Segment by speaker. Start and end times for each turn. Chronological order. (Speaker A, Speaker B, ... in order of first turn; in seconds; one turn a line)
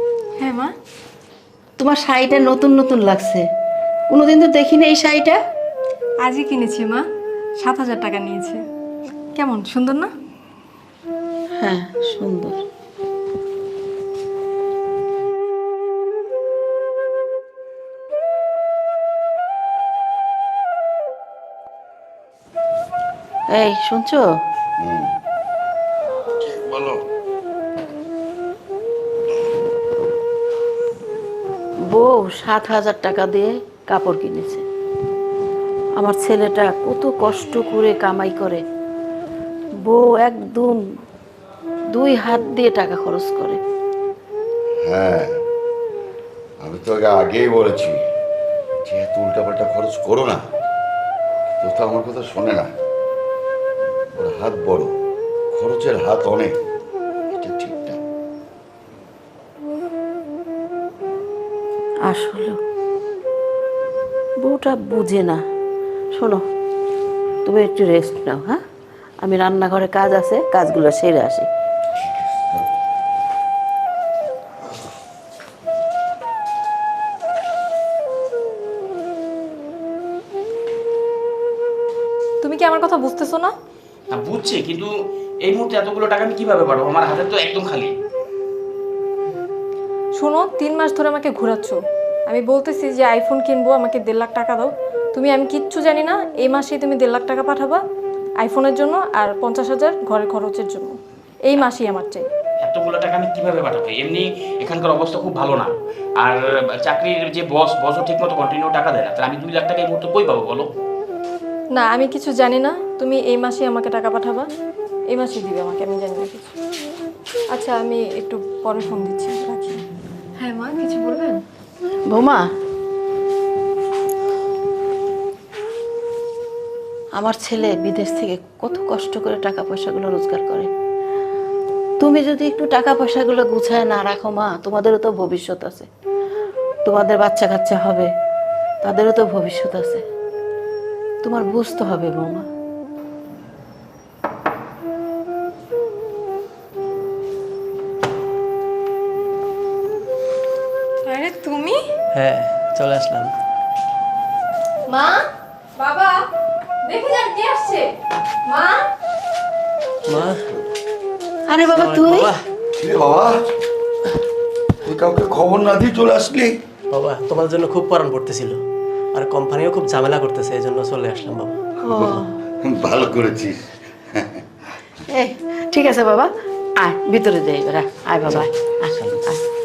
Speaker A: 0.4-0.7
Speaker B: 1.8-3.5
Speaker B: 4.1-5.4
Speaker A: 6.2-7.0
Speaker A: 7.6-8.6
Speaker A: 9.3-10.1
Speaker B: 11.6-12.6
Speaker B: 23.5-24.3
Speaker C: 24.8-25.1
Speaker C: 26.4-27.0
Speaker B: 31.9-34.6
Speaker B: 36.0-38.6
Speaker B: 39.9-40.8
Speaker B: 41.9-43.6
Speaker C: 44.8-45.4
Speaker C: 46.6-48.0
Speaker C: 48.9-50.4
Speaker C: 51.6-52.7
Speaker C: 54.2-54.9
Speaker C: 55.5-56.5
Speaker C: 57.4-58.0
Speaker B: 62.1-62.6
Speaker B: 64.4-65.4
Speaker B: 66.1-66.4
Speaker B: 67.5-68.6
Speaker B: 69.2-71.5
Speaker A: 82.4-83.5
Speaker D: 84.1-84.9
Speaker D: 85.4-87.9
Speaker A: 90.2-97.8
Speaker A: 98.4-102.3
Speaker D: 102.6-110.7
Speaker A: 111.8-114.5
Speaker A: 115.1-116.5
Speaker A: 117.5-119.8
Speaker A: 120.4-121.4
Speaker B: 122.1-122.4
Speaker B: 127.2-130.7
Speaker B: 132.0-135.9
Speaker B: 136.8-138.1
Speaker B: 138.8-140.0
Speaker B: 141.2-142.5
Speaker A: 151.1-151.9
Speaker E: 152.1-153.3
Speaker A: 154.9-155.2
Speaker A: 155.8-156.2
Speaker A: 156.8-157.9
Speaker A: 158.5-158.8
Speaker E: 160.1-160.5
Speaker B: 161.5-162.3
Speaker E: 161.7-162.4
Speaker C: 162.8-163.3
Speaker C: 164.8-166.6
Speaker E: 166.9-168.6
Speaker E: 169.1-171.6
Speaker B: 171.9-172.4
Speaker C: 171.9-173.6
Speaker B: 175.1-179.4